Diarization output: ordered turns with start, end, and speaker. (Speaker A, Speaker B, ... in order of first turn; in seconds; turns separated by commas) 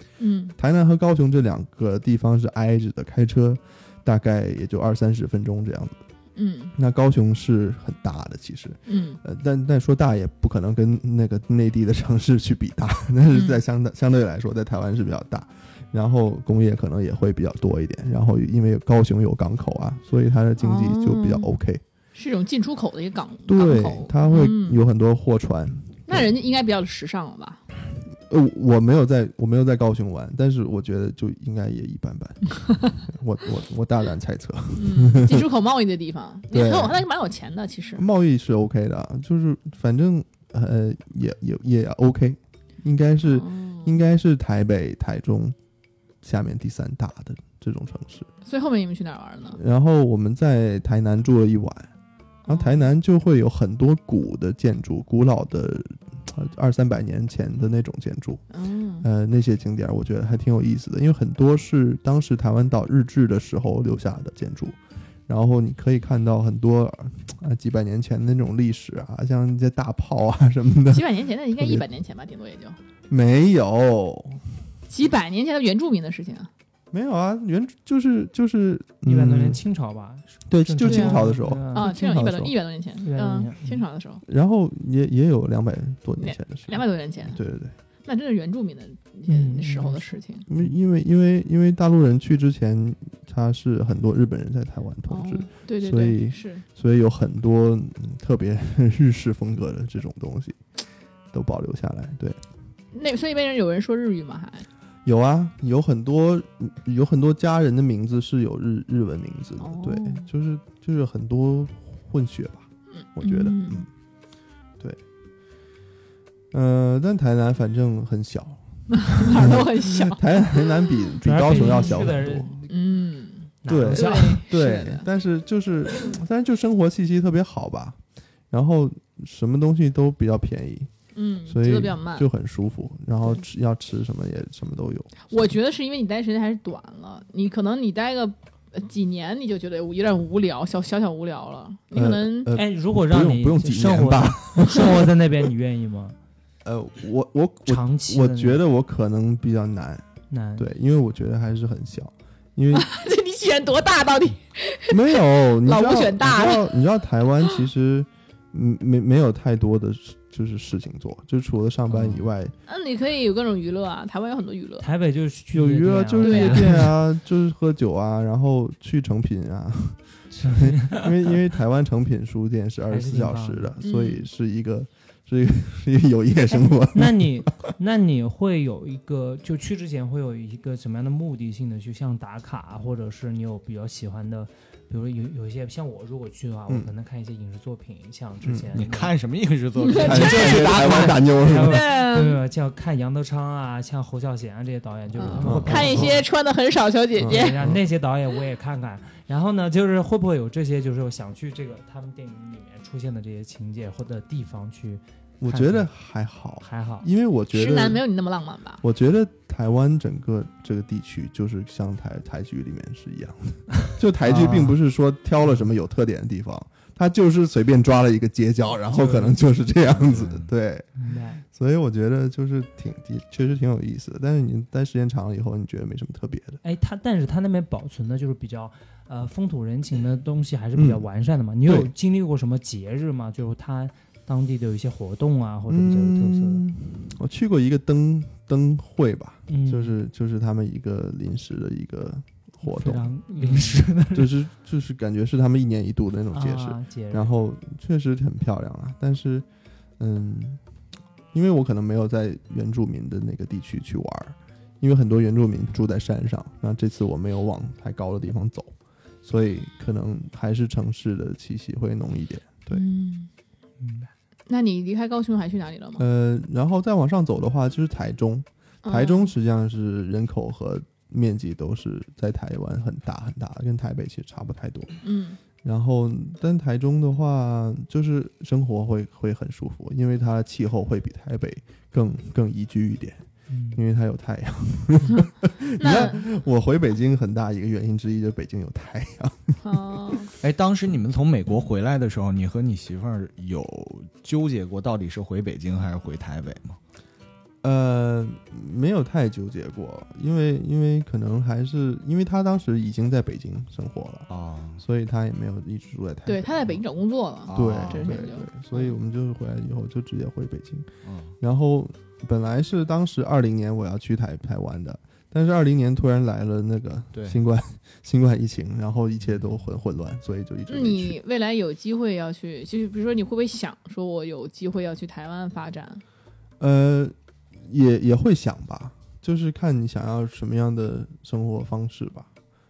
Speaker A: 0.2-0.6, Speaker B: 0.6-6.0, Speaker A: 6.4-6.7, Speaker B: 6.8-21.8, Speaker A: 8.9-9.2, Speaker A: 13.3-13.6, Speaker A: 20.6-21.5, Speaker A: 22.1-24.8, Speaker B: 23.5-26.3, Speaker A: 26.1-27.6, Speaker B: 28.3-35.5, Speaker A: 34.7-38.0, Speaker B: 36.5-37.0, Speaker B: 38.0-45.5, Speaker A: 43.2-44.0, Speaker B: 46.2-48.3, Speaker A: 48.5-49.6, Speaker B: 49.5-51.9, Speaker A: 52.5-52.9, Speaker B: 52.5-58.4, Speaker A: 58.5-59.0, Speaker B: 59.0-64.8, Speaker B: 65.3-71.8, Speaker A: 70.9-72.8, Speaker B: 73.1-74.5, Speaker A: 74.9-76.5, Speaker B: 76.9-79.6, Speaker C: 79.0-81.9, Speaker B: 80.5-82.5, Speaker A: 80.8-84.2, Speaker C: 83.0-83.8, Speaker B: 84.3-87.7, Speaker A: 86.2-87.4, Speaker A: 88.0-90.5, Speaker C: 89.3-90.7, Speaker B: 90.5-100.6, Speaker A: 95.1-96.6, Speaker B: 101.3-102.4, Speaker A: 102.9-104.7, Speaker B: 105.0-113.9, Speaker A: 109.6-110.3, Speaker A: 113.0-113.9, Speaker B: 116.5-122.6, Speaker A: 118.9-120.9, Speaker C: 121.2-122.7, Speaker A: 121.5-122.0, Speaker A: 122.7-125.0, Speaker C: 123.6-124.4, Speaker B: 123.7-128.0, Speaker B: 128.5-130.9, Speaker A: 131.1-132.3, Speaker B: 131.5-135.5, Speaker A: 135.3-142.5, Speaker B: 141.9-145.2, Speaker C: 142.5-146.2, Speaker B: 146.6-150.0, Speaker C: 147.7-148.6, Speaker C: 150.3-150.7, Speaker B: 150.6-152.9, Speaker A: 152.7-156.7, Speaker B: 154.9-162.5, Speaker D: 161.9-162.2, Speaker A: 162.7-164.9, Speaker C: 164.8-166.9, Speaker B: 165.5-177.7, Speaker A: 166.2-166.9, Speaker C: 170.3-171.3, Speaker C: 172.9-173.7, Speaker A: 173.8-174.3, Speaker C: 176.9-189.2, Speaker B: 188.4-188.8, Speaker D: 188.7-191.2, Speaker A: 189.8-192.4, Speaker C: 189.9-196.3, Speaker B: 190.0-191.9, Speaker A: 195.2-197.6, Speaker B: 195.2-196.1, Speaker B: 197.2-197.8, Speaker C: 197.2-205.9, Speaker B: 205.4-208.0, Speaker C: 206.6-207.1, Speaker A: 207.5-208.8, Speaker B: 208.8-220.9, Speaker D: 214.2-214.8, Speaker C: 218.9-219.4, Speaker D: 219.9-220.5, Speaker C: 221.0-221.4, Speaker B: 221.5-226.6, Speaker C: 226.6-236.6, Speaker B: 230.7-231.1, Speaker B: 231.6-231.9, Speaker B: 235.7-249.4, Speaker C: 239.5-239.9, Speaker C: 242.6-244.3, Speaker C: 246.3-247.3, Speaker B: 250.0-250.6, Speaker B: 251.3-258.7, Speaker B: 259.2-262.8, Speaker A: 262.7-263.3, Speaker C: 263.8-264.1, Speaker A: 264.5-266.0, Speaker B: 266.0-274.9, Speaker A: 268.8-269.3, Speaker A: 275.0-275.4, Speaker B: 275.6-283.2, Speaker C: 283.5-283.8, Speaker B: 283.7-289.8, Speaker A: 285.8-286.2, Speaker A: 289.6-290.3, Speaker D: 290.4-296.8, Speaker B: 297.6-304.3, Speaker D: 304.3-304.8, Speaker B: 304.8-306.8, Speaker A: 306.3-308.9, Speaker D: 307.5-308.2, Speaker B: 307.5-310.9, Speaker D: 311.1-311.3, Speaker B: 311.4-321.2, Speaker A: 320.7-326.0, Speaker B: 326.6-332.3